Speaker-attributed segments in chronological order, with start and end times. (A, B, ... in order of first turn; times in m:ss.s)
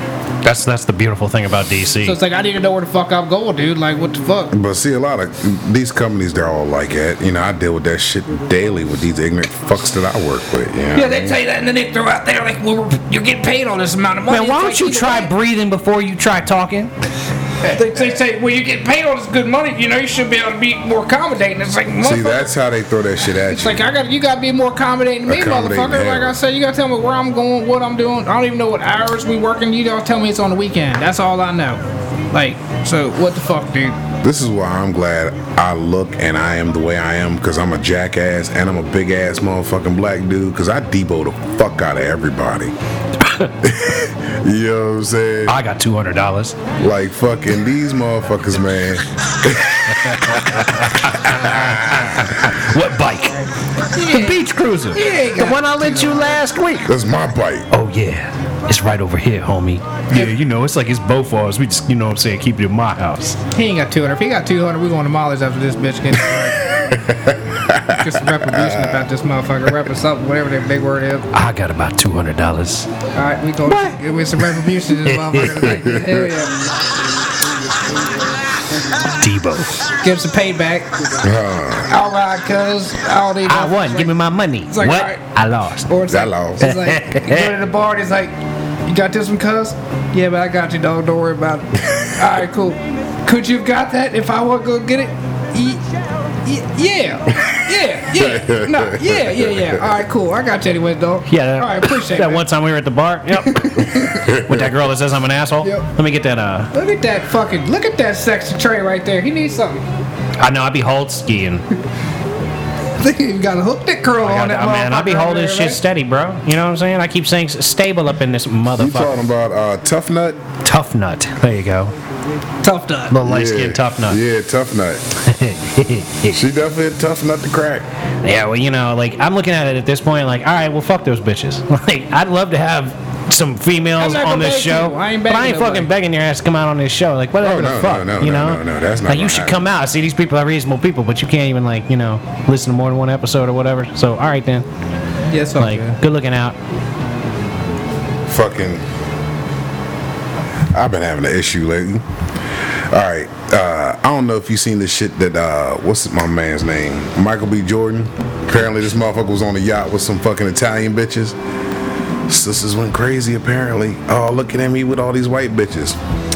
0:00.4-0:02.2 A
0:02.0-0:04.5 B
0:04.5-0:11.4 C
0:10.9-0:15.3 B
0:14.3-0:16.9 A
0:17.6-0:22.5 B
0:22.0-0:23.8 C
0:23.3-0:31.8 B
0:25.3-0:26.4 C
0:32.3-0:34.0 B
0:34.2-0:42.7 C
0:43.2-0:43.5 A
0:43.6-0:45.6 C
0:45.5-0:46.6 A
0:46.8-0:52.5 C
0:50.1-0:53.5 A
0:53.8-0:54.4 B
0:54.0-0:56.9 A
0:54.9-0:56.4 B
0:56.8-0:57.7 C
0:57.7-1:03.4 A
1:03.5-1:06.7 B
1:06.6-1:09.0 C
1:08.0-1:11.3 B
1:11.3-1:12.9 A
1:13.1-1:16.7 B
1:13.7-1:14.0 A
1:15.0-1:15.7 A
1:15.4-1:16.3 C
1:19.2-1:19.9 A
1:19.9-1:21.2 B
1:21.2-1:22.0 C
1:21.8-1:24.1 B
1:23.4-1:25.9 A
1:24.7-1:25.2 B
1:25.9-1:28.3 B
1:26.1-1:26.8 C
1:26.6-1:27.5 A
1:28.8-1:35.8 B
1:36.4-1:42.4 B
1:37.4-1:37.6 C
1:38.1-1:40.0 C
1:41.3-1:46.7 A
1:43.4-1:44.0 B
1:43.8-1:44.8 C
1:46.7-1:49.8 B
1:50.4-1:51.6 A
1:53.0-1:55.8 B
1:54.2-1:59.2 A
1:58.7-2:00.4 C
2:00.6-2:01.9 A
2:02.6-2:03.2 B
2:03.1-2:04.2 A
2:03.2-2:05.0 C
2:05.2-2:06.5 A
2:06.3-2:07.9 C
2:08.2-2:24.6 A
2:14.0-2:15.9 B
2:17.4-2:19.6 C
2:25.3-2:26.0 B
2:25.6-2:26.6 A
2:28.3-2:28.8 C
2:30.7-2:32.0 C
2:32.9-2:41.4 C
2:42.3-2:46.0 C